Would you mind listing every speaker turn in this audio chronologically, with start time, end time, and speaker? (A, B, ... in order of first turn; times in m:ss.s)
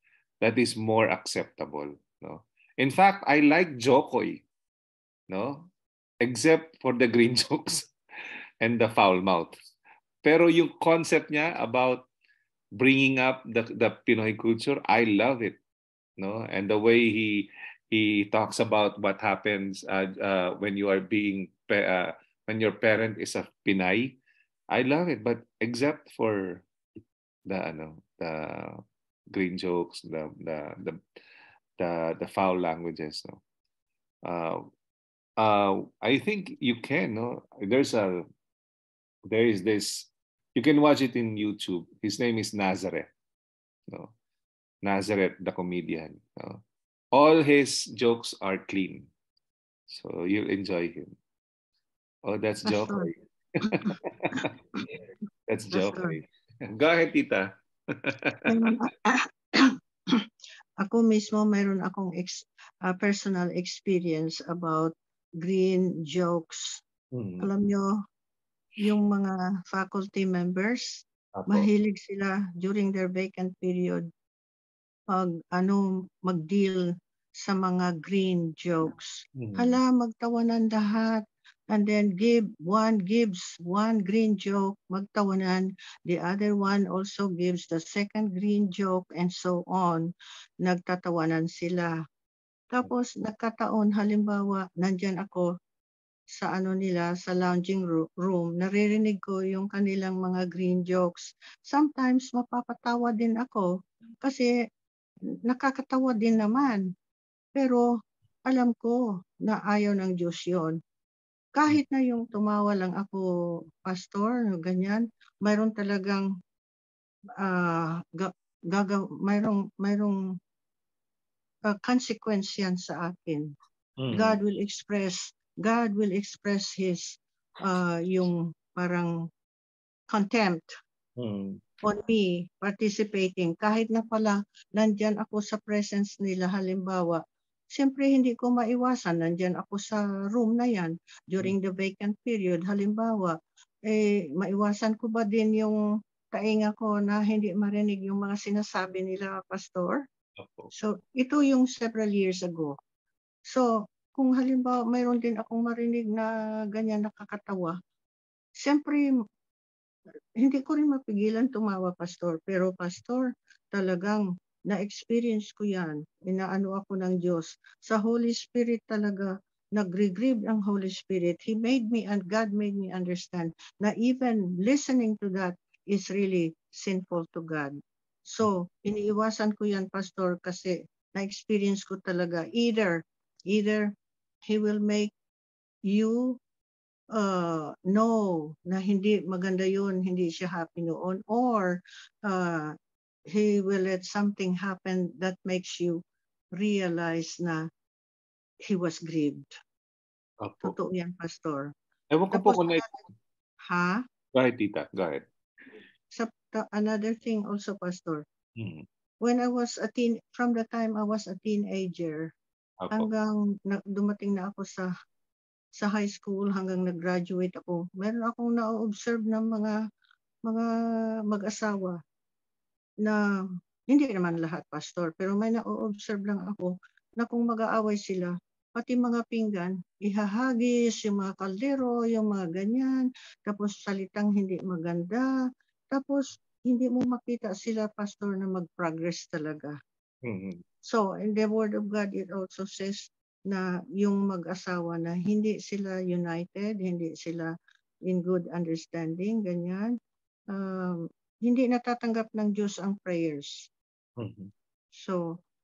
0:00.4-0:04.4 A
0:05.3-0:05.7 A
0:06.2-0:07.9 A
0:08.6-0:09.6 A
0:10.2-0:12.1 A
0:12.8-0:15.6 A
0:16.2-0:24.2 A
0:24.7-0:26.6 A
0:27.5-0:31.0 A
0:31.8-0:33.4 A
0:34.2-0:34.7 A
0:35.4-0:38.3 A
0:39.3-0:43.1 A
0:44.8-0:46.6 A
0:47.1-0:49.1 A
0:49.9-0:51.1 A
0:52.2-0:53.1 A
0:52.6-0:53.1 B
0:53.9-0:54.4 B
0:55.5-0:58.7 A
0:55.7-0:56.2 B
0:58.5-1:00.2 B
1:00.8-1:06.8 B
1:07.1-1:07.5 A
1:07.4-1:08.0 B
1:08.8-1:14.1 B
1:11.4-1:11.7 A
1:15.1-1:16.9 B
1:17.4-1:30.1 B
1:19.4-1:19.8 A
1:30.6-1:31.9 B
1:32.7-1:35.5 B
1:36.4-1:44.5 B
1:45.5-1:46.9 B
1:47.6-1:47.9 B
1:48.5-1:50.8 B
1:51.6-1:53.2 B
1:53.8-1:56.3 B
1:57.4-2:00.2 B
2:01.7-2:03.5 B
2:04.0-2:04.4 A
2:04.1-2:09.1 B
2:10.1-2:10.7 B
2:11.2-2:11.6 A
2:11.8-2:23.4 B
2:23.9-2:25.8 B
2:26.3-2:30.0 B
2:30.4-2:30.7 A
2:30.7-2:32.8 B
2:33.5-2:37.8 B
2:38.6-2:39.1 B
2:40.4-3:03.9 B
3:04.5-3:05.1 B
3:05.9-3:06.4 B
3:07.2-3:12.8 B
3:13.3-3:16.0 B
3:16.5-3:17.7 B
3:18.6-3:19.6 B
3:20.4-3:20.8 A
3:20.6-3:21.7 B
3:22.1-3:22.8 A
3:22.3-3:22.8 B
3:23.7-3:24.0 B
3:24.3-3:25.2 A
3:26.1-3:28.2 B
3:28.6-3:28.8 A
3:29.2-3:32.3 B
3:32.8-3:33.1 A
3:32.9-3:34.9 B
3:35.8-3:39.8 B
3:41.3-3:42.0 B
3:43.9-3:55.3 B
3:55.9-3:59.8 B
4:00.2-4:00.6 A
4:00.8-4:07.5 B
4:08.1-4:10.0 B
4:10.5-4:13.7 B
4:14.2-4:14.5 A
4:14.9-4:15.4 B